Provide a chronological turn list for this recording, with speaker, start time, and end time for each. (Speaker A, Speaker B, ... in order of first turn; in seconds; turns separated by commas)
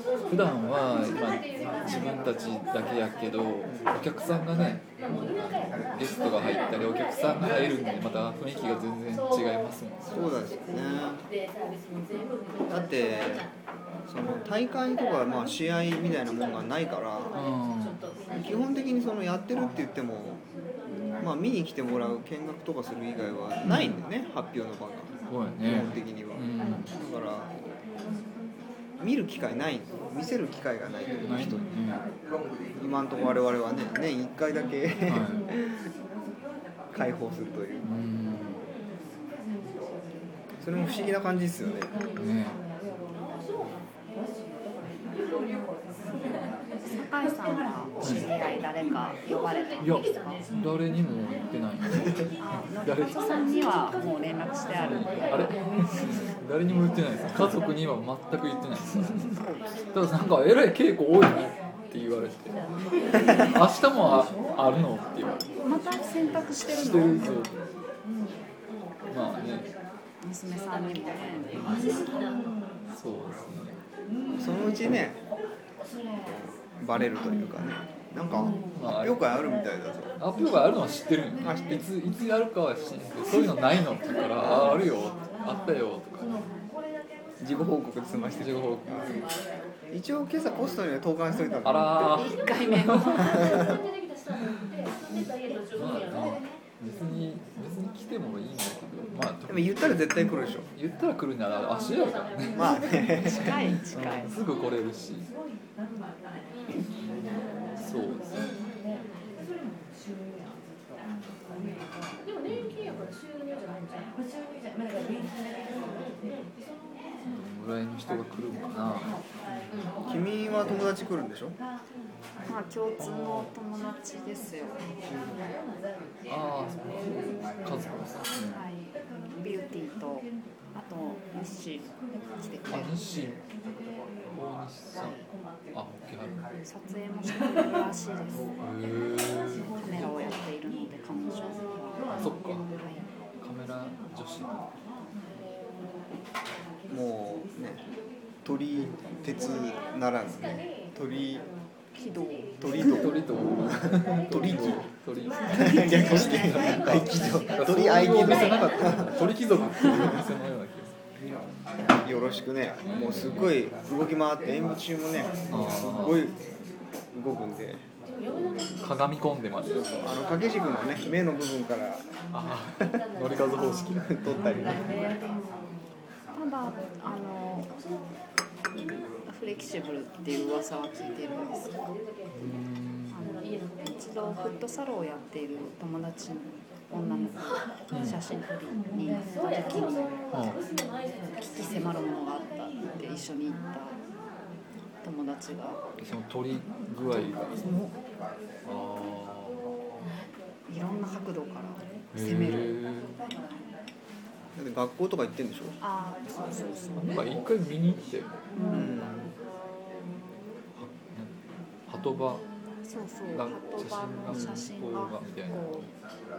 Speaker A: 0.3-10.3, Speaker B: 3.7-3.9, Speaker B: 10.1-11.2, Speaker B: 12.7-13.5, Speaker B: 14.1-17.4, Speaker A: 17.4-18.0, Speaker B: 18.3-20.4, Speaker B: 21.2-27.7, Speaker A: 23.6-24.0, Speaker A: 25.3-26.9, Speaker B: 29.0-31.7, Speaker A: 31.2-32.0, Speaker B: 32.8-35.9, Speaker A: 35.1-35.4, Speaker B: 36.9-37.9, Speaker A: 37.8-38.6, Speaker B: 40.6-41.9, Speaker A: 42.2-42.6, Speaker C: 47.0-50.5, Speaker A: 49.8-53.1, Speaker C: 52.4-55.5, Speaker A: 54.8-59.3, Speaker C: 59.3-59.7, Speaker A: 59.9-62.6, Speaker A: 63.2-65.4, Speaker C: 65.6-67.4, Speaker A: 66.7-67.5, Speaker A: 69.1-69.7, Speaker C: 70.2-72.0, Speaker A: 72.9-73.8, Speaker B: 74.4-75.2, Speaker B: 76.2-80.1, Speaker A: 78.8-79.2, Speaker A: 80.2-86.3, Speaker B: 81.4-81.9, Speaker B: 87.4-89.2, Speaker A: 88.4-89.0, Speaker B: 89.9-92.0, Speaker A: 91.6-93.5, Speaker C: 92.2-93.5, Speaker A: 95.8-102.6, Speaker B: 99.5-100.7, Speaker B: 102.5-103.7, Speaker C: 103.2-104.3, Speaker A: 103.9-105.3, Speaker A: 107.8-108.5, Speaker A: 112.5-113.1, Speaker A: 117.2-119.8, Speaker B: 120.1-121.6, Speaker C: 122.5-124.8, Speaker A: 123.0-123.5, Speaker A: 126.3-128.6, Speaker C: 128.5-133.0, Speaker A: 132.7-133.4, Speaker A: 134.3-135.2, Speaker A: 135.7-136.4, Speaker C: 136.6-138.5, Speaker A: 138.6-139.8, Speaker C: 139.8-143.0, Speaker A: 142.1-142.7, Speaker A: 143.4-144.5, Speaker B: 146.9-147.8, Speaker B: 148.4-151.5, Speaker C: 151.9-153.0, Speaker B: 152.6-153.1, Speaker A: 152.8-160.9, Speaker B: 153.7-154.9, Speaker B: 155.5-159.1, Speaker C: 155.6-156.8, Speaker B: 162.0-166.3, Speaker A: 162.8-163.5, Speaker A: 165.5-166.3, Speaker B: 167.1-167.8, Speaker A: 168.8-170.1, Speaker B: 169.8-172.1, Speaker A: 172.3-174.8, Speaker C: 173.5-174.0, Speaker B: 174.0-174.8, Speaker C: 176.3-177.7, Speaker C: 179.3-181.7, Speaker A: 182.3-183.2, Speaker C: 183.1-190.1, Speaker A: 187.9-188.2, Speaker A: 190.3-190.6, Speaker C: 191.4-194.0, Speaker C: 195.0-195.8, Speaker A: 196.0-197.8, Speaker C: 197.5-197.9, Speaker A: 198.7-199.6, Speaker C: 200.7-203.7, Speaker A: 202.1-203.1, Speaker B: 204.6-205.8, Speaker C: 205.8-207.3, Speaker A: 207.0-208.3, Speaker C: 208.6-208.9, Speaker B: 208.7-209.3, Speaker A: 210.8-211.3, Speaker A: 211.9-212.4, Speaker C: 212.9-215.9, Speaker A: 213.3-215.8, Speaker B: 214.3-214.6